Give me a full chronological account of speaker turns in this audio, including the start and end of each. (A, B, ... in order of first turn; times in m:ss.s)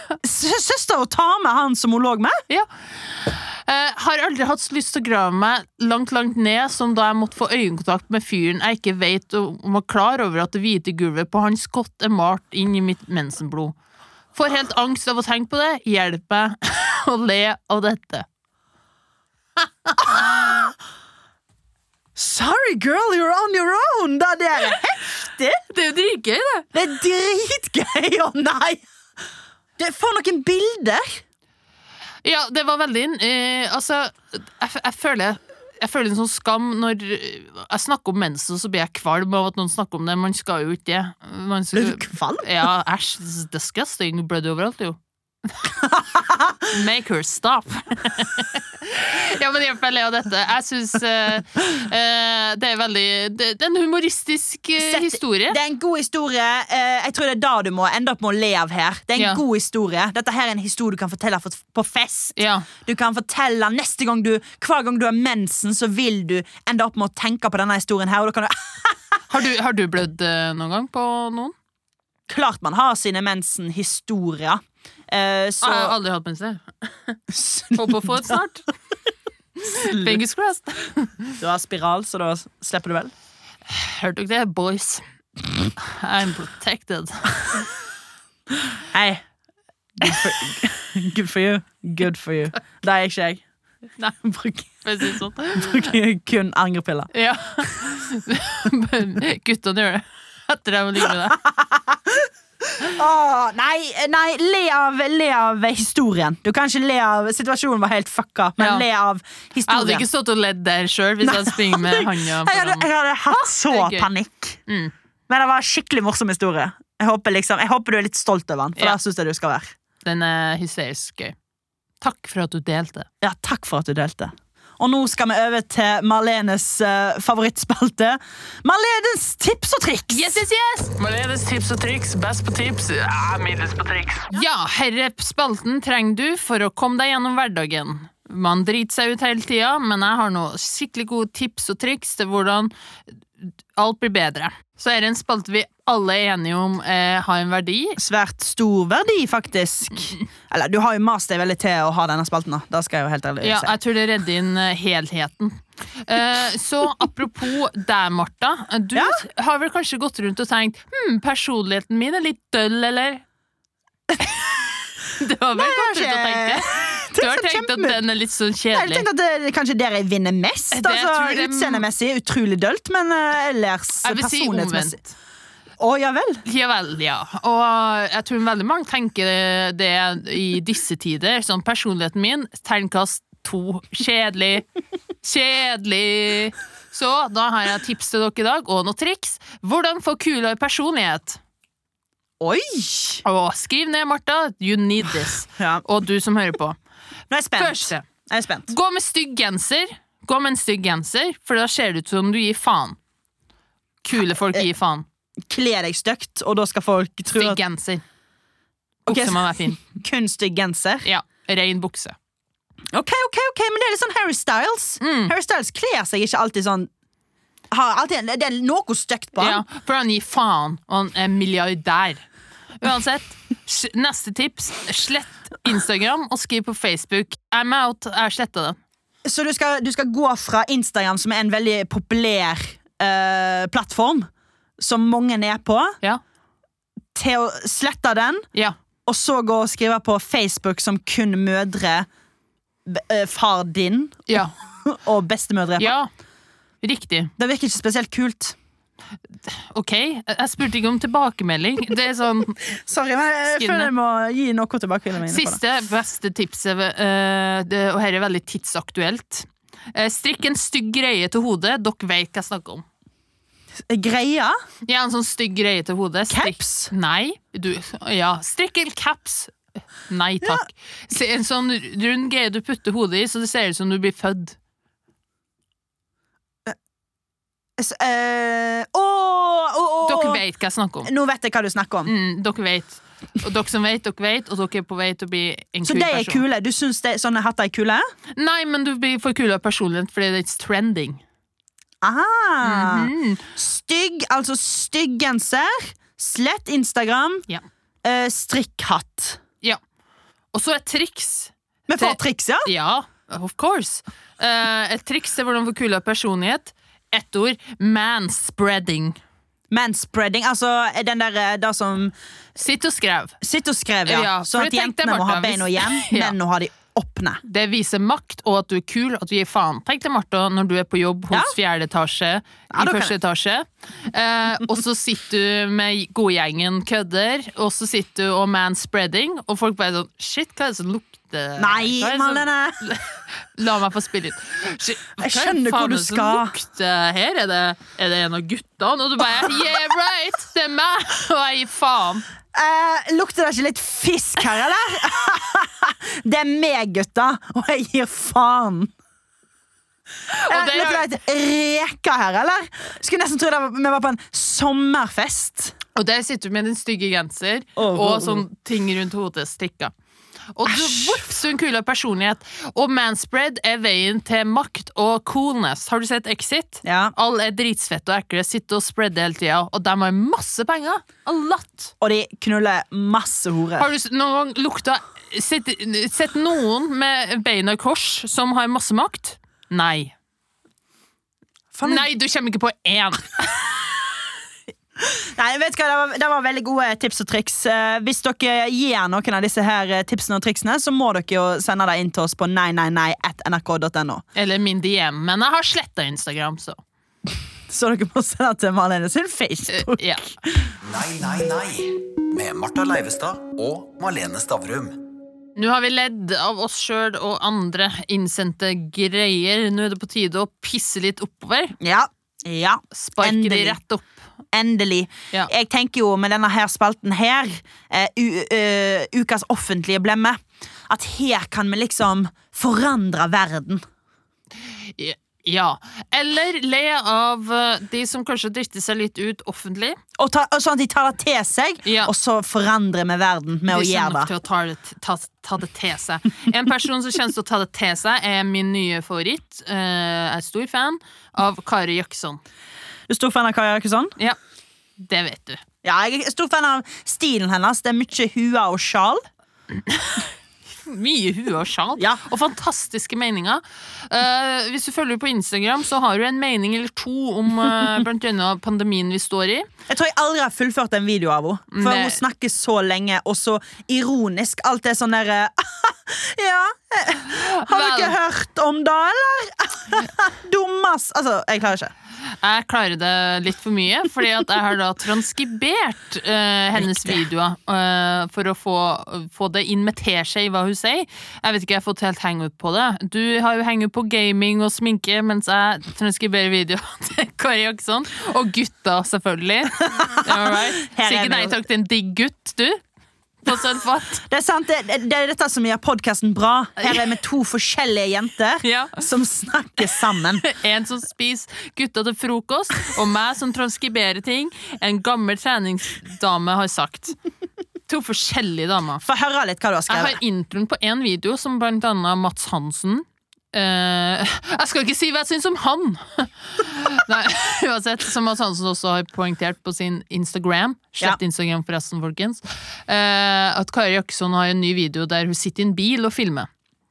0:00.2-0:02.4 A
0:02.5-0:13.8 B
0:14.3-0:18.2 B
0:20.0-0:20.7 A
0:20.0-0:20.3 B
0:22.2-0:25.6 A
0:25.7-0:26.7 B
0:26.7-0:28.8 A
0:29.8-0:31.2 A
0:32.2-0:45.7 B
0:41.7-0:42.5 A
0:45.8-0:46.7 A
0:46.7-0:55.6 B
0:54.8-1:09.0 A
1:02.4-1:02.7 B
1:09.3-1:11.5 B
1:12.3-1:15.9 A
1:15.6-1:18.7 B
1:17.3-1:18.4 A
1:19.6-1:21.4 B
1:19.8-1:20.2 A
1:21.4-1:23.1 A
1:23.7-1:25.0 B
1:25.8-1:27.6 B
1:28.9-1:29.2 A
1:30.0-1:33.4 A
1:34.2-1:37.1 A
1:34.8-1:35.8 B
1:37.1-1:41.4 B
1:41.3-1:42.3 A
1:42.8-1:50.0 A
1:48.6-1:48.8 B
1:49.7-1:52.9 B
1:51.2-1:54.6 A
1:53.5-1:54.1 B
1:54.7-1:54.9 B
1:55.3-1:59.7 A
2:00.0-2:01.4 B
2:02.0-2:03.1 B
2:03.2-2:10.4 A
2:10.1-2:11.2 B
2:11.0-2:14.3 C
2:14.3-2:22.7 B
2:23.4-2:28.0 B
2:28.0-2:33.7 A
2:33.4-2:43.2 B
2:38.9-2:39.2 A
2:44.2-2:44.6 B
2:45.1-2:49.1 B
2:45.6-2:48.0 A
2:48.7-2:55.0 A
2:50.7-2:51.9 B
2:54.0-2:55.1 B
2:55.8-2:56.4 A
2:56.4-3:04.7 B
3:05.2-3:11.4 B
3:12.4-3:13.2 A
3:13.2-3:16.8 B
3:15.6-3:15.8 A
3:17.3-3:18.7 A
3:17.6-3:18.0 B
3:18.7-3:23.0 B
3:24.0-3:25.0 B
3:25.5-3:27.6 A
3:27.3-3:28.0 B
3:29.0-3:29.8 B
3:29.1-3:31.1 A
3:31.0-3:32.2 B
3:32.9-3:36.9 A
3:35.0-3:35.3 B
3:37.7-3:39.6 A
3:39.4-3:42.2 B
3:42.8-3:48.8 B
3:49.2-3:54.3 A
3:54.8-3:56.0 A
3:57.1-3:58.5 A
3:59.0-4:02.1 A
4:02.8-4:04.3 A
4:04.3-4:04.5 B
4:04.8-4:05.9 A
4:05.8-4:06.1 B
4:06.8-4:07.3 B
4:07.4-4:08.6 A
4:09.4-4:12.6 B
4:12.6-4:15.6 A
4:13.6-4:13.9 B
4:15.2-4:22.8 B
4:23.9-4:24.6 A
4:24.8-4:34.6 B
4:26.3-4:26.9 A
4:37.8-4:40.4 A
4:40.0-4:41.1 B
4:41.0-4:42.1 A
4:42.0-4:46.4 B
4:45.8-4:48.0 A
4:48.4-4:51.2 B
4:52.0-4:57.4 A
4:52.6-4:53.4 B
4:58.0-4:59.4 A
5:00.5-5:09.2 B
5:01.9-5:02.7 A
5:09.7-5:12.1 A
5:12.6-5:13.4 B
5:13.4-5:17.4 A
5:14.0-5:16.3 B
5:17.4-5:42.2 B
5:22.7-5:23.1 A
5:31.6-5:32.8 A
5:35.2-5:36.5 A
5:42.5-5:48.9 A
5:50.3-5:51.1 B
5:50.5-5:55.7 A
5:55.9-5:59.9 B
5:57.8-5:58.4 A
6:00.5-6:11.9 B
6:00.6-6:01.2 A
6:06.8-6:07.1 A
6:12.0-6:13.9 A
6:13.8-6:20.1 B
6:21.7-6:22.1 A
6:21.8-6:23.8 B
6:25.0-6:34.2 A
6:34.3-6:36.8 B
6:37.7-6:40.7 A
6:39.7-6:40.3 B
6:40.8-6:45.0 D
6:45.6-6:51.8 B
6:51.8-6:53.8 A
6:52.9-6:54.2 B
6:54.5-7:03.8 A
7:05.0-7:10.0 B
7:10.2-7:14.3 A
7:11.8-7:12.1 B
7:13.7-7:22.4 B
7:23.1-7:24.1 A
7:25.0-7:25.6 B
7:25.8-7:29.2 A
7:29.8-7:30.3 B
7:30.8-7:39.7 B
7:39.9-7:51.9 A
7:41.7-7:42.2 B
7:47.3-7:48.2 B
7:52.4-8:12.8 B
7:56.8-7:57.2 A
8:10.0-8:11.6 A
8:13.4-8:14.2 B
8:14.3-8:20.4 A
8:16.8-8:17.1 B
8:18.6-8:19.0 B
8:20.4-8:27.2 B
8:27.9-8:29.0 B
8:29.0-8:30.2 A
8:29.9-8:46.5 B